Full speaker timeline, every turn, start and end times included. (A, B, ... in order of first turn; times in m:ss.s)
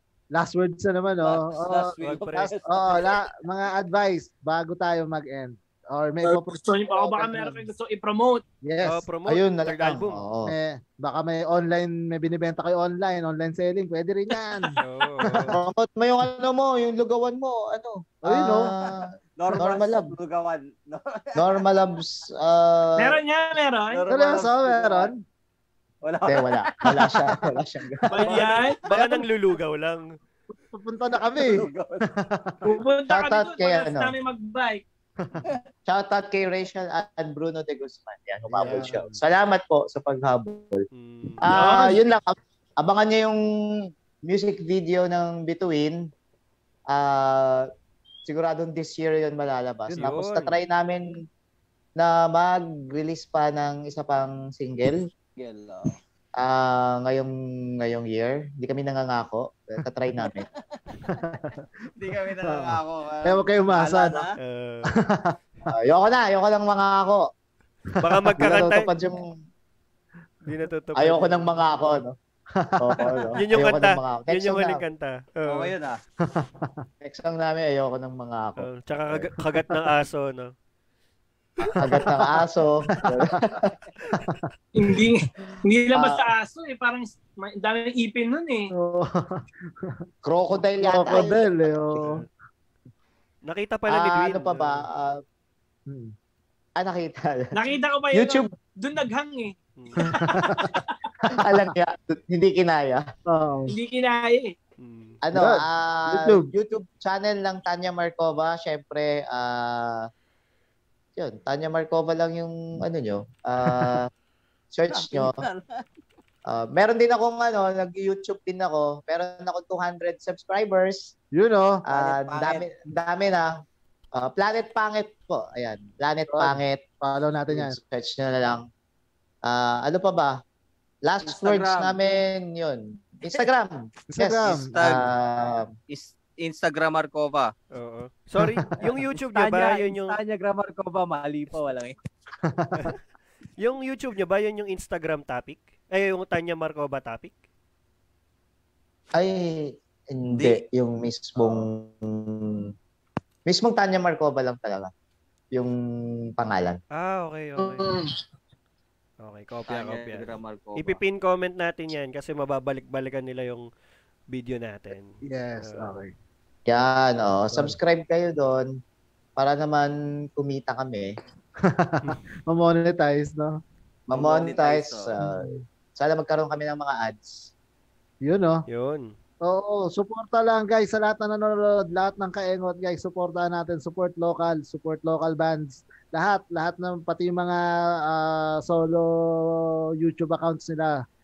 0:00.4-0:02.0 A
0:01.2-0:03.2 B
0:02.0-0:02.7 C
0:02.6-0:07.7 A
0:06.3-0:08.4 D
0:08.6-0:09.1 A
0:08.8-0:10.2 C
0:09.3-0:10.6 E
0:10.5-0:14.8 A
0:14.8-0:15.6 C
0:15.5-0:20.2 E
0:18.2-0:18.7 A
0:19.4-0:21.7 B
0:21.4-0:23.2 E
0:23.0-0:24.0 D
0:23.9-0:25.1 B
0:24.1-0:25.2 A
0:26.0-0:27.2 B
0:26.3-0:28.3 E
0:28.1-0:28.9 D
0:28.1-0:28.8 B
0:28.3-0:30.0 C
0:30.7-0:32.6 A
0:31.4-0:32.1 B
0:32.6-0:34.8 D
0:33.1-0:34.1 E
0:35.2-0:35.5 A
0:35.9-0:40.8 E
0:38.5-0:39.2 A
0:40.9-0:41.9 C
0:41.4-0:43.4 E
0:44.3-0:46.1 E
0:46.9-0:47.7 E
0:48.3-0:51.1 E
0:49.9-0:50.1 A
0:50.0-0:50.6 C
0:52.0-0:55.0 E
0:55.4-0:55.9 B
0:56.4-1:00.5 E
1:00.2-1:01.1 B
1:01.0-1:01.6 A
1:02.0-1:04.3 B
1:02.4-1:04.3 A
1:04.4-1:05.0 C
1:05.1-1:05.4 A
1:05.7-1:07.2 E
1:08.0-1:08.9 C
1:08.4-1:09.3 E
1:10.4-1:12.0 C
1:11.0-1:12.2 E
1:12.6-1:13.3 A
1:12.8-1:14.8 E
1:13.4-1:15.7 C
1:15.5-1:16.0 B
1:16.2-1:16.8 A
1:17.0-1:19.3 E
1:18.6-1:20.5 C
1:19.4-1:19.8 A
1:21.6-1:23.7 E
1:23.0-1:23.4 A
1:24.0-1:24.5 A
1:24.8-1:28.7 D
1:25.9-1:26.2 E
1:28.7-1:29.9 A
1:30.2-1:31.8 E
1:30.8-1:32.2 A
1:31.9-1:32.3 C
1:33.5-1:34.8 C
1:33.9-1:35.2 E
1:35.9-1:36.1 A
1:36.8-1:37.5 E
1:37.5-1:39.5 D
1:38.1-1:38.5 E
1:40.0-1:40.7 A
1:41.2-1:41.7 A
1:41.4-1:43.0 E
1:43.3-1:43.7 A
1:43.7-1:44.5 D
1:44.8-1:45.2 C
1:45.2-1:50.1 E
1:45.4-1:46.5 A
1:51.2-1:54.1 E
1:53.6-1:54.0 A
1:54.7-1:55.4 E
1:54.9-1:55.8 B
1:56.5-2:01.1 E
2:01.4-2:01.8 A
2:01.9-2:03.5 E
2:01.9-2:02.6 B
2:04.2-2:06.8 E
2:06.3-2:07.8 A
2:07.5-2:08.7 E
2:09.4-2:10.4 E
2:11.0-2:15.7 E
2:11.2-2:12.0 B
2:14.1-2:15.1 A
2:14.7-2:15.1 B
2:15.9-2:17.5 B
2:17.7-2:20.2 C
2:18.8-2:22.0 B
2:22.4-2:22.9 A
2:23.6-2:27.3 C
2:29.2-2:32.7 E
2:30.3-2:30.6 B
2:31.4-2:31.7 B
2:33.5-2:34.9 E
2:36.4-2:36.8 E
2:36.9-2:37.9 C
2:39.2-2:43.6 C
2:39.7-2:41.0 B
2:44.3-2:46.0 C
2:45.2-2:46.1 A
2:46.7-2:48.8 E
2:49.4-2:51.1 E
2:51.6-2:53.6 A
2:54.1-2:57.5 E
2:54.2-2:55.1 B
2:55.2-2:55.6 A
2:58.2-2:58.6 A
2:58.7-2:59.1 C
2:59.4-3:11.0 A